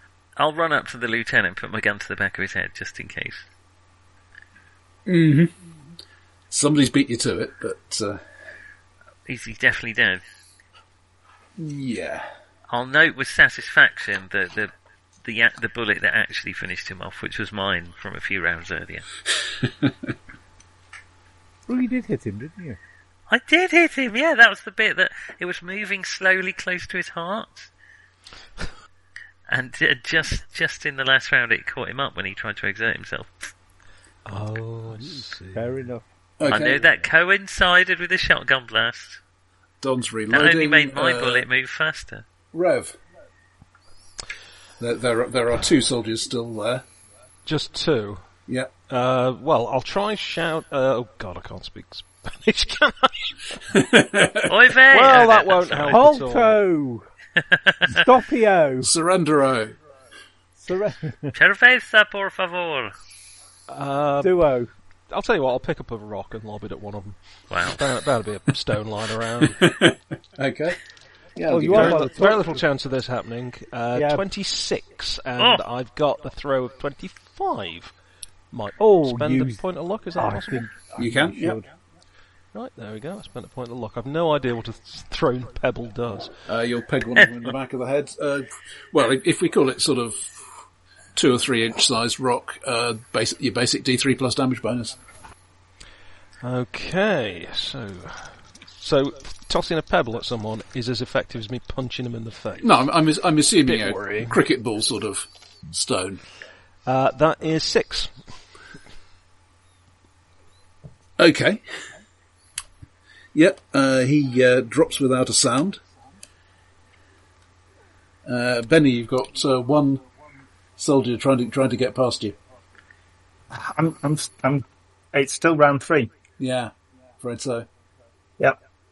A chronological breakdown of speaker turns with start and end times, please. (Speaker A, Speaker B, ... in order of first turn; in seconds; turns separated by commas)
Speaker A: 0.4-3.4, Speaker B: 5.0-5.5, Speaker B: 6.5-8.2, Speaker A: 9.3-10.2, Speaker B: 11.6-12.3, Speaker A: 12.7-14.7, Speaker A: 15.2-19.1, Speaker C: 21.7-22.8, Speaker A: 23.3-27.7, Speaker A: 29.5-33.5, Speaker D: 34.2-35.7, Speaker C: 35.5-36.0, Speaker B: 36.4-36.9, Speaker A: 36.4-39.2, Speaker B: 39.8-41.5, Speaker A: 40.3-42.2, Speaker B: 42.5-43.0, Speaker B: 44.8-46.8, Speaker D: 47.5-48.2, Speaker B: 48.5-48.7, Speaker D: 48.9-53.3, Speaker B: 53.7-54.7, Speaker A: 54.5-56.0, Speaker D: 54.9-56.6, Speaker C: 55.9-57.0, Speaker A: 57.5-57.9, Speaker C: 57.9-58.9, Speaker B: 58.8-59.7, Speaker C: 60.6-61.3, Speaker A: 61.3-62.9, Speaker D: 63.7-64.4, Speaker C: 64.2-64.7, Speaker D: 65.1-69.7, Speaker A: 67.5-67.8, Speaker B: 69.6-70.8, Speaker B: 71.3-72.2, Speaker C: 71.5-72.5, Speaker D: 71.7-77.9, Speaker C: 73.9-74.2, Speaker A: 75.4-75.6, Speaker D: 78.5-80.7, Speaker C: 78.8-79.6, Speaker C: 80.2-81.7, Speaker B: 81.0-81.6, Speaker D: 82.5-86.3, Speaker B: 86.5-90.5, Speaker B: 91.1-95.0, Speaker D: 96.4-102.7, Speaker B: 102.6-106.2, Speaker D: 103.6-104.4, Speaker D: 106.8-108.2, Speaker B: 111.2-111.6, Speaker B: 113.3-115.8, Speaker B: 118.2-120.0, Speaker B: 120.8-122.3, Speaker E: 123.5-126.1, Speaker B: 126.4-127.7